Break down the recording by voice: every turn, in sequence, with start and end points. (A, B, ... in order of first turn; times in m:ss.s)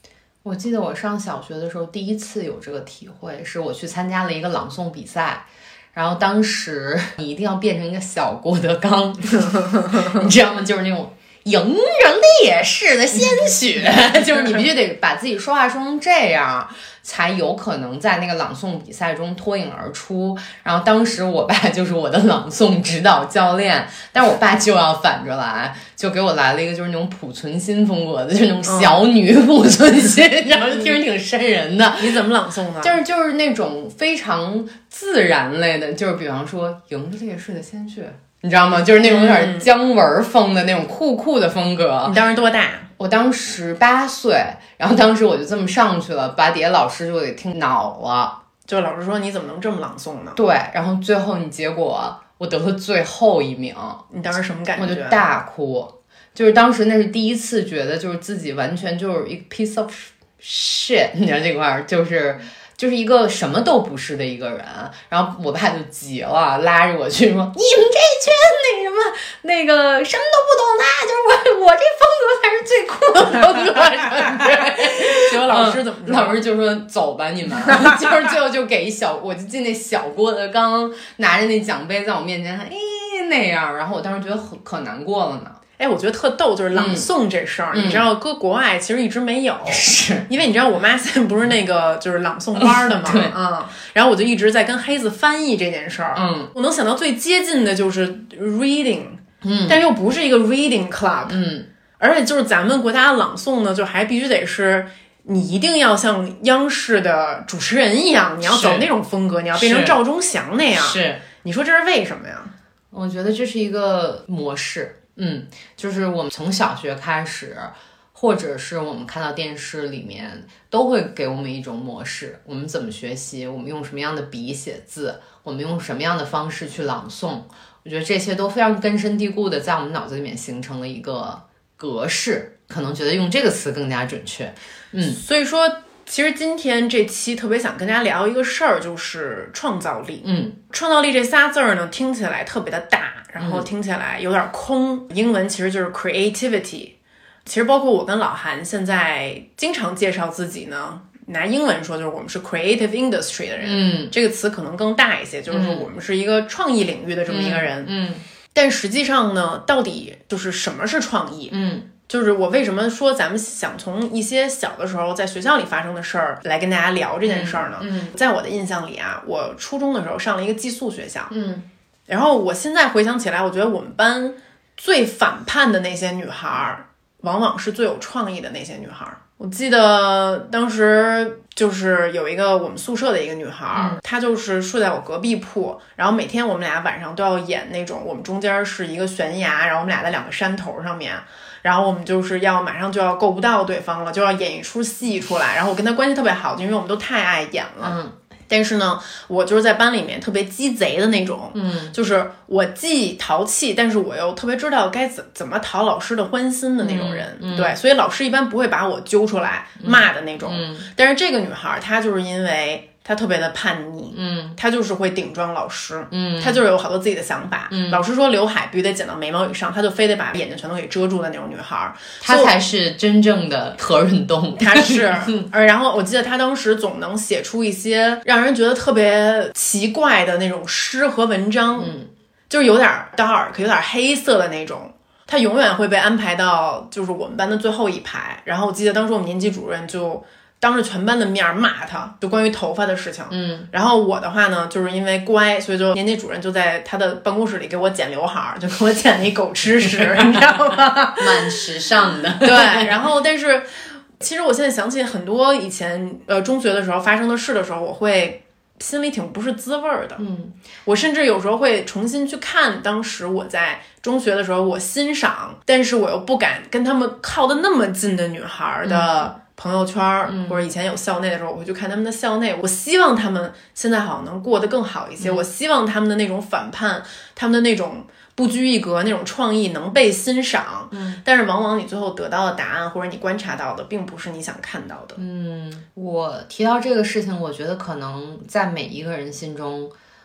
0:00.4-0:32.2 A
0:28.6-0:29.0 B
0:32.0-0:33.0 B
0:32.8-0:42.2 A
0:39.0-0:39.7 B
0:42.0-0:42.9 B
0:43.0-0:48.4 A
0:48.7-0:50.4 B
0:50.4-0:54.0 A
0:54.1-0:55.2 B
0:54.8-1:25.6 A
1:15.1-1:16.4 B
1:25.8-1:41.4 B
1:26.7-1:27.1 A
1:27.7-1:28.0 A
1:29.7-1:30.3 A
1:32.6-1:33.3 A
1:36.2-1:36.5 A
1:39.4-1:39.8 A
1:41.3-1:41.7 A
1:42.0-1:52.5 B
1:48.4-1:48.9 A
1:49.5-1:50.0 A
1:50.7-1:51.2 A
1:52.9-2:15.2 A
2:15.1-2:26.9 B
2:20.2-2:20.6 A
2:23.4-2:23.7 A
2:27.4-2:37.9 B
2:33.6-2:34.1 A
2:35.5-2:35.9 A
2:37.3-2:38.2 A
2:38.5-2:41.5 B
2:41.5-2:41.9 A
2:42.1-2:51.3 B
2:47.3-2:48.1 A
2:51.3-2:51.7 A
2:52.1-3:18.0 B
3:03.7-3:04.0 A
3:17.8-3:18.2 A
3:18.5-3:42.5 B
3:21.5-3:21.9 A
3:26.8-3:27.7 A
3:29.8-3:30.9 A
3:34.1-3:34.6 A
3:36.1-3:36.6 A
3:37.7-3:38.0 A
3:42.2-3:45.4 A
3:44.6-3:51.9 B
3:51.8-3:52.1 A
3:52.5-4:11.6 B
4:03.3-4:03.7 A
4:11.2-4:13.0 A
4:12.4-4:20.2 B
4:20.2-4:20.6 A
4:20.8-4:45.2 B
4:28.8-4:29.3 A
4:30.2-4:30.6 A
4:35.2-4:35.4 A
4:40.9-4:41.2 A
4:45.2-4:49.9 A